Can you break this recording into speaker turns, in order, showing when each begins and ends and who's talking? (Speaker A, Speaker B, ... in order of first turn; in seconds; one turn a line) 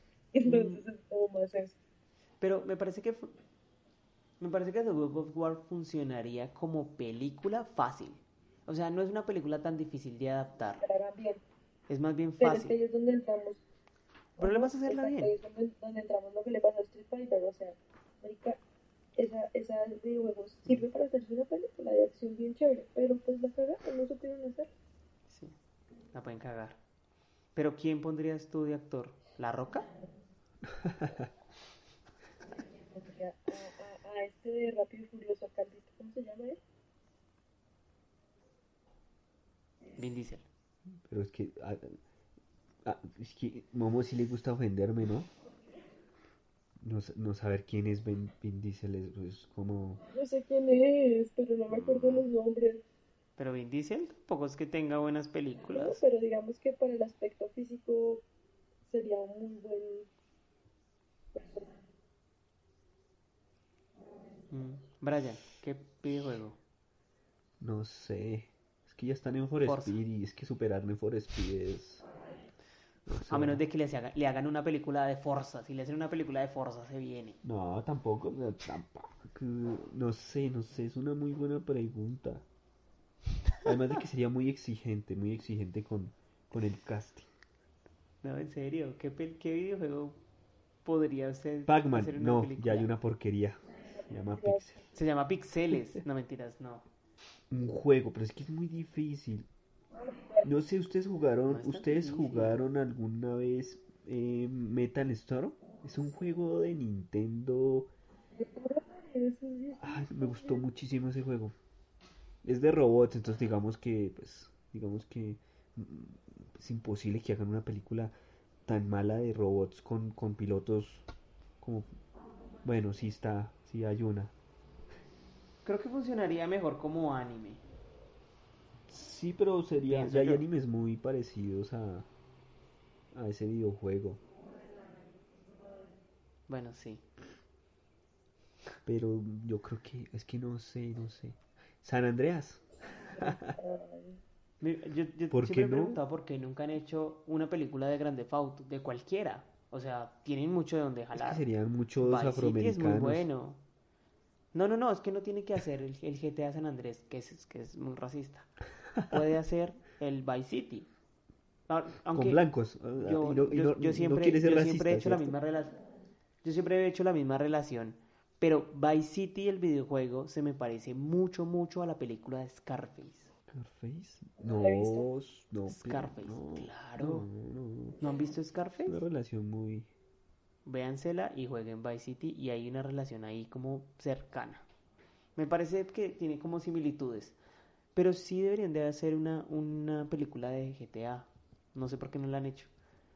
Speaker A: 0.3-1.8
Speaker B: 0.4-0.8
Speaker B: 2.4-3.3
Speaker B: 4.4-10.8
Speaker A: 10.8-11.4
Speaker B: 11.9-12.8
Speaker A: 12.4-13.6
Speaker A: 14.4-18.6
Speaker B: 14.4-15.3
Speaker A: 19.2-24.7
Speaker B: 25.3-25.6
Speaker B: 26.1-26.8
Speaker B: 27.6-29.9
Speaker C: 30.6-31.3
Speaker A: 32.9-36.6
Speaker B: 40.0-40.5
Speaker C: 41.1-42.0
Speaker C: 42.8-45.3
Speaker C: 46.8-50.0
Speaker A: 50.1-52.8
Speaker C: 51.7-52.2
Speaker B: 53.4-56.0
Speaker A: 55.7-58.2
Speaker A: 58.9-60.1
Speaker A: 61.3-61.7
Speaker B: 64.5-66.6
Speaker C: 67.6-72.0
Speaker B: 69.6-70.0
Speaker C: 73.1-73.6
Speaker B: 73.3-77.4
Speaker C: 77.4-82.5
Speaker C: 83.6-87.3
Speaker B: 88.2-90.2
Speaker B: 90.8-92.9
Speaker C: 91.7-94.8
Speaker A: 94.3-94.6
Speaker B: 94.9-96.9
Speaker C: 97.5-99.5
Speaker A: 100.0-100.5
Speaker C: 100.4-107.9
Speaker B: 101.5-102.6
Speaker A: 108.4-110.6
Speaker C: 109.8-111.5
Speaker C: 112.4-118.1
Speaker C: 118.7-121.1
Speaker C: 121.6-121.9
Speaker C: 122.6-124.3
Speaker B: 125.7-127.6
Speaker C: 128.9-132.1
Speaker B: 129.9-130.4
Speaker C: 133.1-134.2
Speaker B: 136.5-137.0
Speaker C: 138.9-142.6
Speaker C: 143.2-143.6
Speaker A: 143.2-144.2
Speaker B: 144.6-151.4
Speaker C: 145.3-146.0
Speaker C: 151.1-153.3
Speaker B: 152.0-153.6
Speaker B: 154.5-158.5
Speaker B: 159.1-160.9
Speaker B: 161.7-162.4
Speaker C: 162.1-165.3
Speaker B: 163.0-165.8
Speaker B: 166.4-173.3
Speaker C: 173.5-178.0
Speaker A: 174.5-175.1
Speaker B: 175.7-177.3
Speaker B: 178.0-179.0
Speaker C: 178.8-179.9
Speaker B: 180.7-184.7
Speaker B: 185.4-187.4
Speaker B: 187.9-192.7